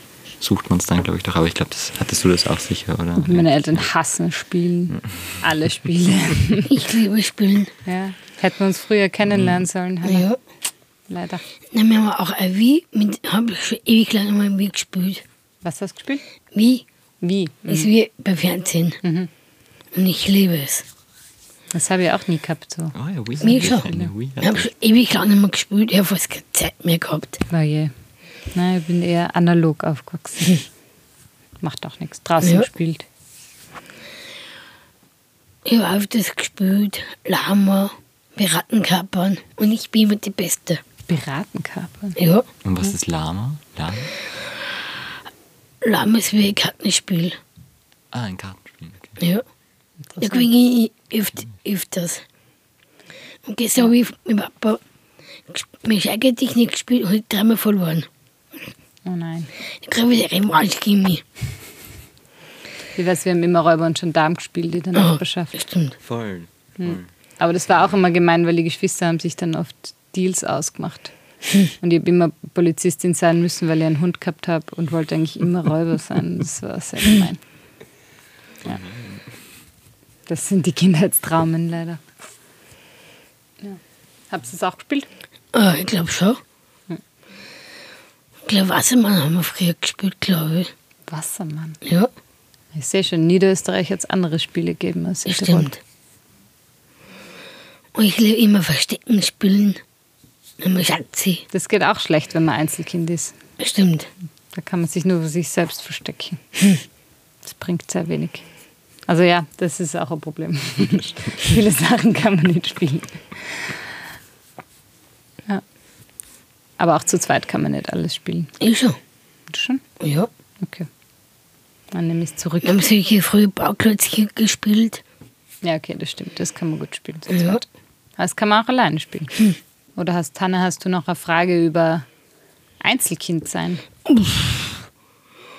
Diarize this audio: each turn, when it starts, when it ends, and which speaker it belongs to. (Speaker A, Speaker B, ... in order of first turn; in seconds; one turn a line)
Speaker A: 0.4-3.9
Speaker B: 3.2-6.8
Speaker C: 6.7-7.7
Speaker B: 7.8-10.3
Speaker A: 9.3-9.7
Speaker C: 10.0-10.4
Speaker B: 11.1-11.4
Speaker C: 11.7-15.2
Speaker B: 15.6-16.2
Speaker C: 16.5-16.8
Speaker B: 17.2-17.9
Speaker C: 17.7-19.0
Speaker B: 19.0-19.3
Speaker C: 19.9-20.9
Speaker B: 21.7-24.1
Speaker A: 22.9-24.7
Speaker C: 23.4-23.9
Speaker C: 24.4-27.4
Speaker B: 27.5-27.9
Speaker B: 28.5-30.6
Speaker B: 31.6-33.0
Speaker C: 32.4-32.7
Speaker C: 35.6-40.8
Speaker B: 41.1-42.2
Speaker C: 42.2-42.5
Speaker A: 42.6-44.1
Speaker C: 45.8-47.4
Speaker A: 48.1-49.2
Speaker C: 49.2-49.4
Speaker B: 50.1-50.5
Speaker C: 50.2-52.2
Speaker C: 53.5-54.8
Speaker C: 55.5-58.1
Speaker B: 59.0-59.5
Speaker C: 59.8-61.2
Speaker B: 63.0-65.6
Speaker C: 64.9-66.0
Speaker A: 66.0-67.0
Speaker B: 66.8-71.1
Speaker B: 71.8-77.4
Speaker A: 78.6-79.2
Speaker B: 80.3-82.0
Speaker B: 84.3-85.1
Speaker C: 85.5-86.4
Speaker C: 88.5-90.7
Speaker B: 91.1-91.8
Speaker C: 91.8-92.1
Speaker B: 92.7-95.7
Speaker C: 95.3-95.8
Speaker C: 97.9-99.8
Speaker C: 100.6-101.4
Speaker B: 101.5-103.3
Speaker C: 103.6-104.1
Speaker B: 104.5-106.4
Speaker B: 107.4-108.4
Speaker B: 109.1-113.8
Speaker B: 116.8-118.5
Speaker C: 118.6-119.0
Speaker B: 119.5-119.8
Speaker C: 120.0-120.3
Speaker B: 120.6-120.9
Speaker B: 121.9-122.8
Speaker C: 122.6-125.0
Speaker B: 125.6-132.1
Speaker C: 127.3-127.6
Speaker B: 132.8-133.8
Speaker C: 134.1-134.7